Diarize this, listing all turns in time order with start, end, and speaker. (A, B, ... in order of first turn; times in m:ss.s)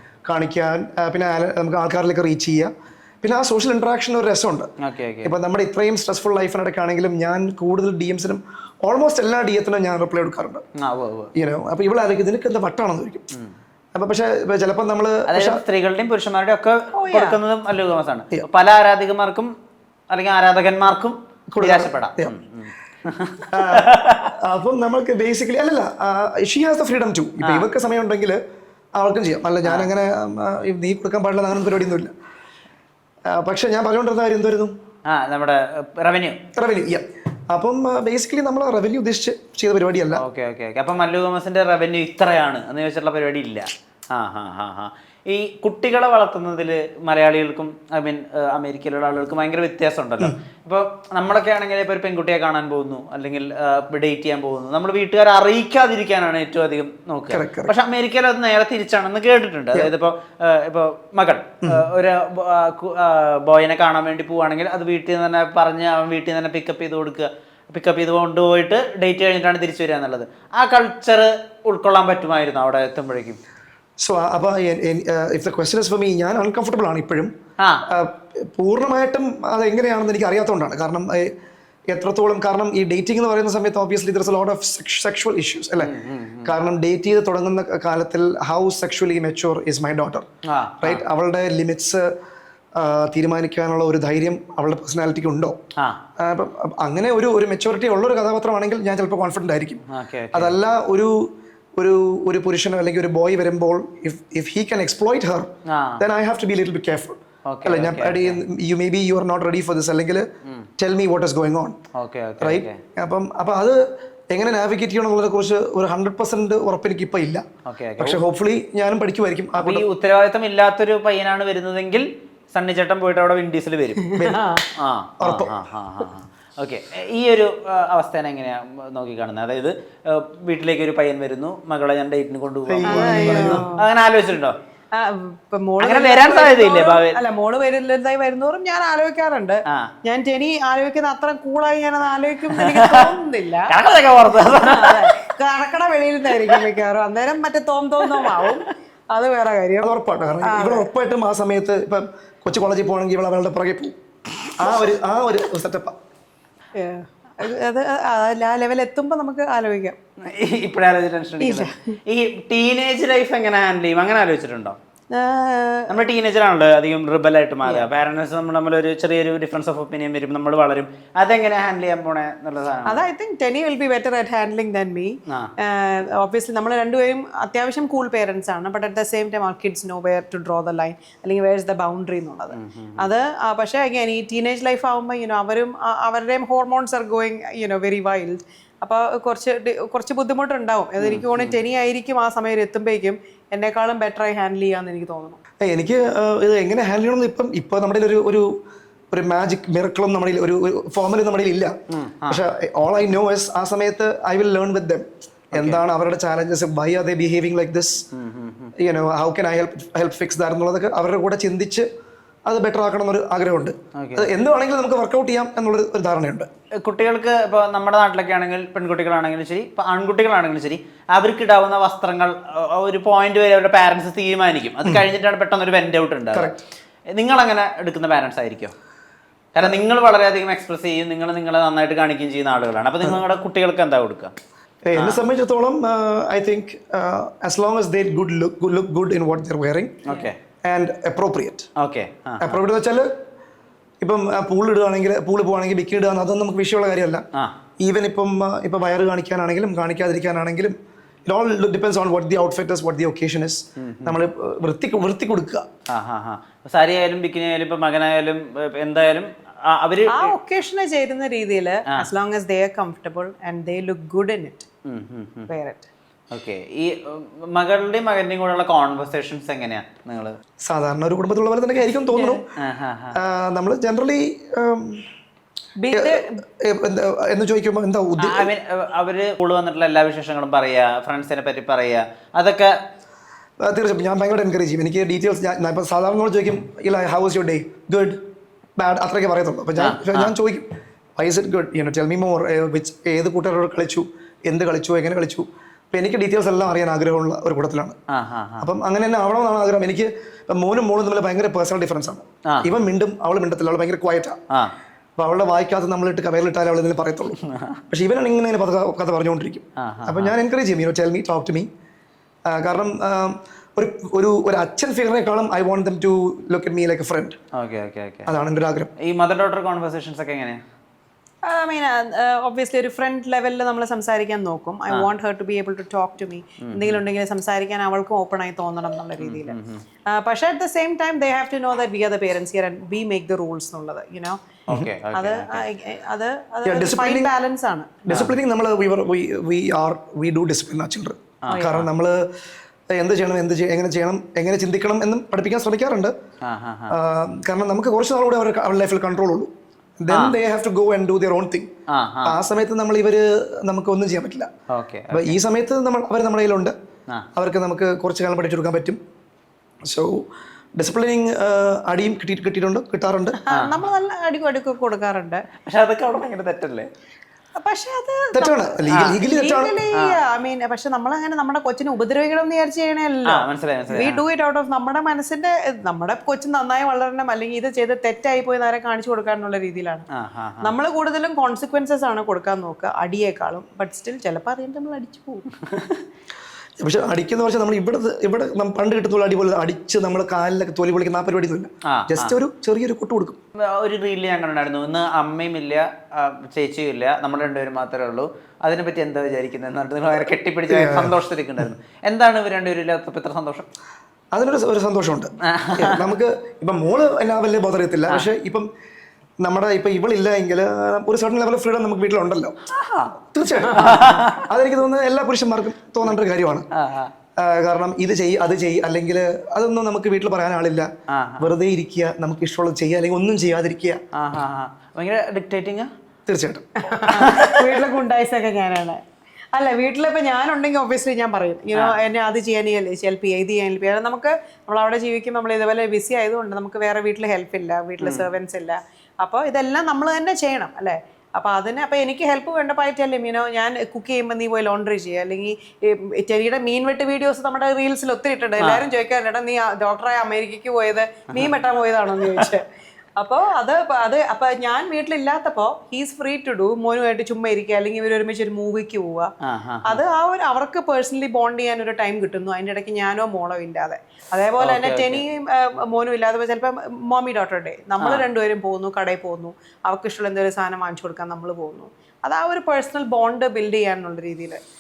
0:00.2-0:04.7 A
0:04.8-0:05.3 B
0:05.2-0:10.6 A
0:10.8-0:11.3 B
0:11.3-0:13.2 A
0:13.9-0:15.6 A
0:15.3-0:19.5 B
0:16.9-0:17.4 C
0:20.1-0:24.3 B
0:21.5-0:22.3 A
0:23.5-0:28.4 A
0:27.4-0:27.7 B
0:28.9-0:32.1 A
0:29.6-0:29.9 B
0:33.3-0:34.7 A
0:35.1-0:36.4 B
0:36.5-0:40.2 A
0:40.2-1:13.4 B
0:57.3-0:57.7 A
1:14.0-1:17.3 A
1:17.6-1:17.8 B
1:17.9-1:21.3 A
1:21.9-1:25.9 A
1:25.8-1:26.5 B
1:26.4-1:30.2 A
1:30.5-1:31.0 B
1:30.8-1:32.1 A
1:32.7-1:35.6 A
1:36.2-1:50.2 A
1:39.9-1:40.6 B
1:45.7-1:46.0 B
1:47.4-1:48.4 B
1:50.8-1:51.8 A
1:51.9-1:52.8 B
1:52.4-1:57.4 A
1:57.6-1:58.2 B
1:58.0-1:59.9 A
1:59.6-2:04.0 B
2:04.0-2:04.7 C
2:04.8-2:14.6 B
2:05.2-2:05.5 A
2:12.7-2:13.6 A
2:12.9-2:13.9 C
2:14.9-2:29.9 C
2:15.8-2:17.2 B
2:22.5-2:23.1 B
2:23.7-2:25.1 B
2:26.3-2:26.6 B
2:28.1-2:28.6 B
2:29.8-2:33.9 A
2:30.4-2:30.9 C
2:34.6-2:35.9 A
2:36.7-2:40.0 C
2:40.2-2:44.8 B
2:41.4-2:41.7 C
2:45.1-2:46.0 C
2:45.9-2:53.0 B
2:47.6-2:47.9 C
2:52.8-3:15.4 C
3:02.5-3:03.1 B
3:11.0-3:11.5 B
3:15.6-3:18.5 A
3:19.1-3:21.8 A
3:21.9-3:22.4 B
3:22.3-3:28.0 A
3:25.5-3:25.8 B
3:28.1-3:28.7 B
3:28.8-3:31.9 A
3:32.4-3:36.5 A
3:34.0-3:34.3 B
3:36.8-3:46.5 B
3:46.3-3:46.6 A
3:47.1-3:48.7 B
3:49.5-3:54.3 B
3:54.8-4:00.0 A
3:54.9-3:55.2 B
4:00.0-4:00.4 B
4:00.6-4:01.7 A
4:01.8-4:02.6 B
4:02.4-4:03.1 A
4:04.0-4:07.2 A
4:07.8-4:10.7 A
4:11.3-4:15.6 A
4:13.8-4:14.2 B
4:15.9-4:20.4 B
4:20.1-4:24.6 C
4:24.8-4:25.5 B
4:25.5-4:25.9 C
4:26.3-4:30.4 B
4:30.6-4:32.4 A
4:32.1-4:32.4 C
4:32.6-4:33.2 B
4:33.1-4:35.1 A
4:35.8-4:36.4 C
4:35.9-4:38.5 A
4:38.2-4:42.7 B
4:43.6-4:48.2 A
4:48.8-4:58.0 A
4:49.8-4:50.3 B
4:58.1-4:58.7 B
4:58.6-5:04.4 A
5:05.2-5:07.4 A
5:07.4-5:07.8 B
5:07.9-5:11.7 A
5:09.8-5:10.3 B
5:12.5-5:17.4 A
5:17.5-5:18.3 B
5:18.3-5:18.9 A
5:19.0-5:20.6 B
5:21.4-5:29.6 C
5:26.6-5:27.0 B
5:29.2-5:29.8 B
5:30.1-5:34.4 C
5:34.7-5:35.6 B
5:35.1-5:38.0 C
5:36.6-5:37.3 A
5:38.0-5:42.2 A
5:38.1-5:38.4 B
5:41.4-5:41.9 B
5:41.5-5:41.7 C
5:42.9-5:46.1 A
5:46.4-5:46.9 B
5:46.9-5:51.7 A
5:50.1-5:50.4 B
5:51.9-5:52.4 B
5:52.2-5:54.5 A
5:54.7-5:55.4 B
5:55.1-5:56.7 A
5:57.4-5:59.0 A
5:59.8-6:00.2 A
6:00.8-6:03.4 A
6:03.4-6:05.4 C
6:05.6-6:06.9 B
6:07.6-6:20.0 C
6:08.3-6:09.8 A
6:08.9-6:09.2 B
6:13.3-6:14.2 B
6:20.1-6:20.7 B
6:20.6-6:25.5 C
6:25.7-6:26.0 B
6:26.8-6:33.4 A
6:31.8-6:32.4 B
6:33.6-6:43.7 B
6:40.7-6:41.1 A
6:44.3-6:48.7 A
6:45.5-6:46.0 B
6:49.4-6:52.5 A
6:52.7-6:54.4 B
6:53.2-6:56.7 A
6:56.7-6:57.1 B
6:57.4-7:00.9 A
7:01.1-7:01.5 B
7:01.4-7:04.0 A
7:04.1-7:05.9 B
7:06.3-7:06.6 A
7:06.8-7:09.0 C
7:07.1-7:07.6 B
7:09.5-7:32.6 C
7:18.0-7:18.3 B
7:28.6-7:28.8 B
7:32.2-7:32.5 B
7:33.2-7:39.3 C
7:39.4-7:40.0 B
7:39.8-7:54.6 C
7:44.6-7:45.2 B
7:48.0-7:48.2 B